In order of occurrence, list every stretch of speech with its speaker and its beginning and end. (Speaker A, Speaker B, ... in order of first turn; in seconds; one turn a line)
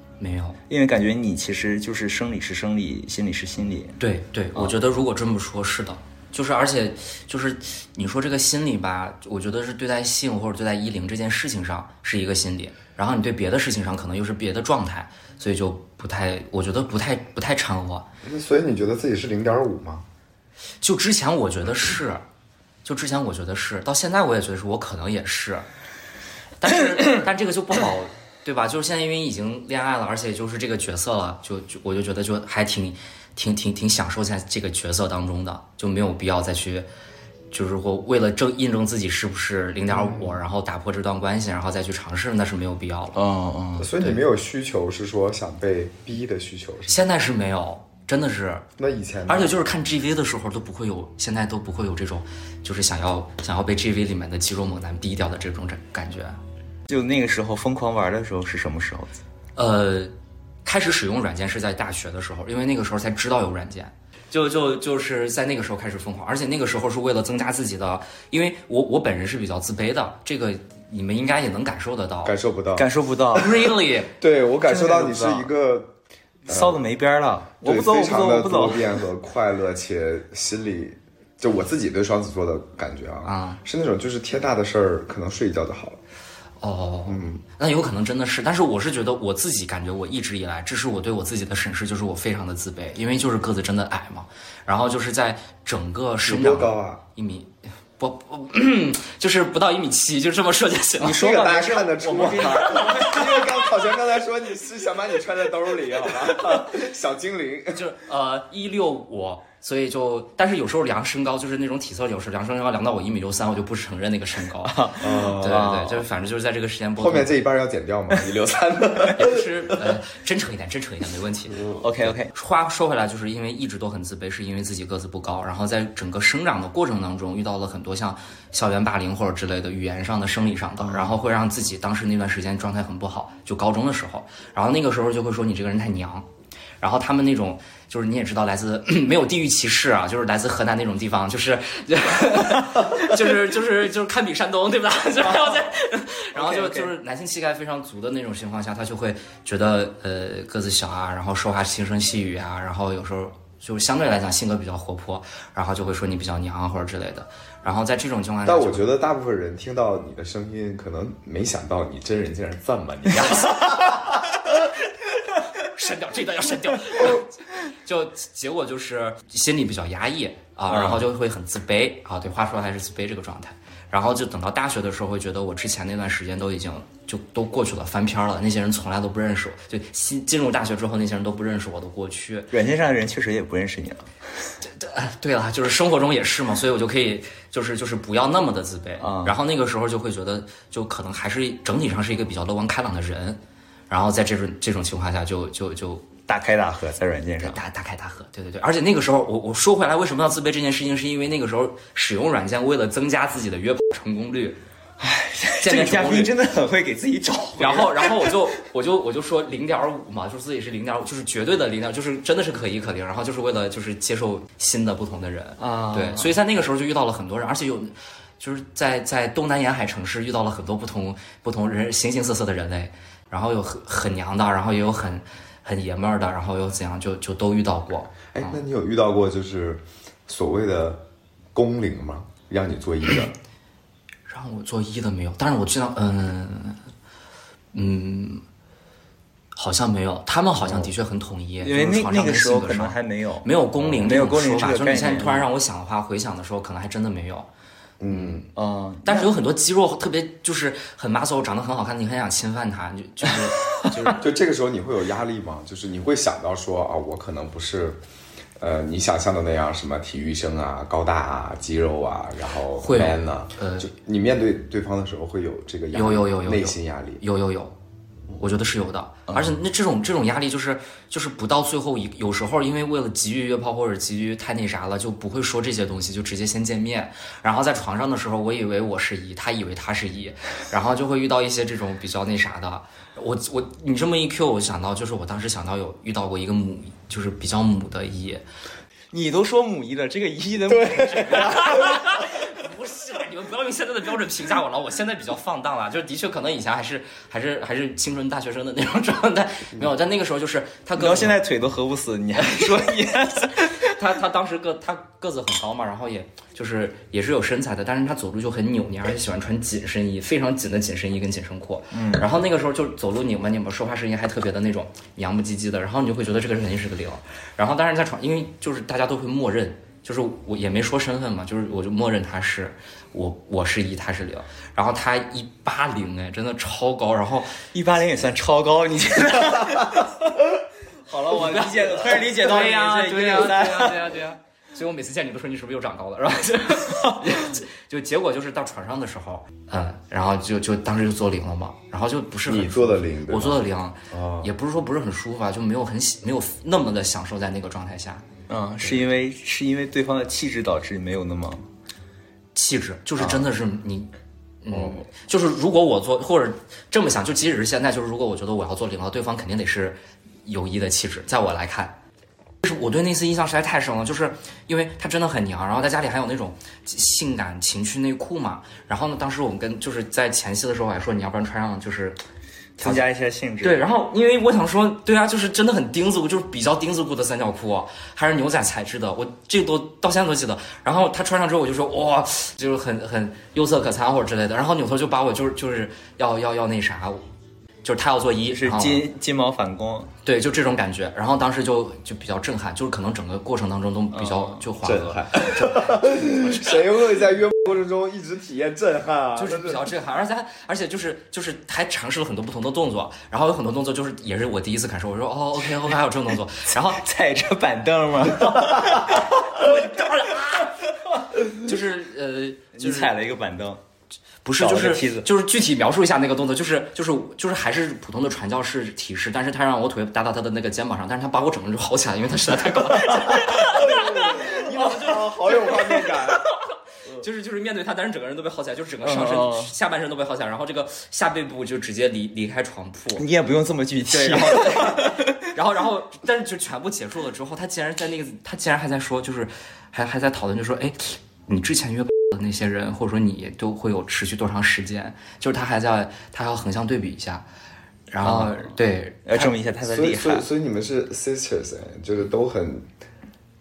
Speaker A: 0.2-0.6
Speaker B: 0.7-4.0
Speaker A: 4.0-18.1
Speaker C: 18.2-20.1
Speaker A: 20.8-22.2
Speaker A: 22.8-25.7
Speaker A: 26.6-36.9
Speaker A: 37.5-43.2
Speaker C: 39.9-40.4
Speaker B: 43.2-43.9
Speaker C: 43.8-47.0
Speaker A: 46.9-48.6
Speaker C: 48.8-49.6
Speaker A: 49.3-56.4
Speaker B: 56.9-59.1
Speaker A: 59.6-60.1
Speaker A: 60.6-72.4
Speaker C: 72.2-73.4
Speaker B: 72.8-73.5
Speaker A: 73.3-74.1
Speaker C: 74.2-75.9
Speaker B: 74.7-75.5
Speaker C: 76.5-76.9
Speaker B: 76.5-79.0
Speaker C: 77.6-86.0
Speaker A: 83.2-83.6
Speaker A: 86.6-101.2
Speaker C: 87.1-87.4
Speaker C: 96.2-97.0
Speaker B: 101.0-103.7
Speaker C: 101.1-107.9
Speaker A: 107.7-117.3
Speaker B: 114.6-116.1
Speaker C: 115.0-115.7
Speaker C: 117.0-119.9
Speaker A: 119.2-121.6
Speaker B: 121.8-122.3
Speaker A: 122.3-136.3
Speaker A: 136.8-158.9
Speaker B: 145.3-145.6
Speaker B: 146.3-146.9
Speaker C: 158.4-164.2
Speaker A: 163.2-163.7
Speaker A: 165.6-182.5
Speaker B: 170.7-171.1
Speaker B: 182.5-184.1
Speaker A: 184.7-193.4
Speaker B: 189.0-189.4
Speaker A: 193.9-196.1
Speaker B: 196.3-197.6
Speaker A: 197.4-204.6
Speaker B: 205.0-208.4
Speaker A: 205.6-206.3
Speaker A: 207.6-228.6
Speaker B: 215.6-216.3
Speaker C: 228.3-233.3
Speaker A: 234.3-236.8
Speaker A: 237.7-238.4
Speaker A: 239.6-247.5
Speaker C: 240.6-240.9
Speaker B: 241.6-245.5
Speaker C: 248.0-248.5
Speaker B: 248.5-249.3
Speaker A: 249.1-254.3
Speaker C: 254.2-258.0
Speaker C: 258.6-267.2
Speaker A: 262.8-263.9
Speaker A: 265.9-267.8
Speaker A: 268.4-288.4
Speaker B: 289.1-291.9
Speaker C: 290.7-291.7
Speaker A: 291.2-301.4
Speaker B: 301.0-303.9
Speaker A: 302.5-302.7
Speaker A: 303.8-327.6
Speaker B: 311.9-312.3
Speaker B: 327.7-330.4
Speaker B: 331.1-334.2
Speaker A: 331.3-348.3
Speaker C: 342.5-344.5
Speaker B: 348.5-351.7
Speaker A: 352.6-354.1
Speaker B: 353.2-353.5
Speaker A: 354.6-362.0
Speaker C: 354.7-355.0
Speaker A: 362.6-372.2
Speaker B: 372.8-373.9
Speaker A: 372.8-373.1
Speaker A: 373.6-387.2
Speaker A: 387.8-389.1
Speaker B: 388.5-390.1
Speaker A: 390.2-396.8
Speaker B: 394.1-394.7
Speaker C: 394.8-399.9
Speaker A: 399.4-407.0
Speaker B: 406.8-409.4
Speaker A: 409.1-410.7
Speaker A: 411.5-413.1
Speaker B: 412.8-413.8
Speaker A: 414.4-426.1
Speaker B: 414.6-415.3
Speaker B: 423.2-423.4
Speaker C: 423.5-426.4
Speaker A: 427.2-433.2
Speaker B: 429.0-429.7
Speaker B: 433.2-435.4
Speaker A: 434.1-447.5
Speaker A: 448.1-449.5
Speaker B: 448.2-448.7
Speaker B: 449.2-450.5
Speaker C: 449.8-452.9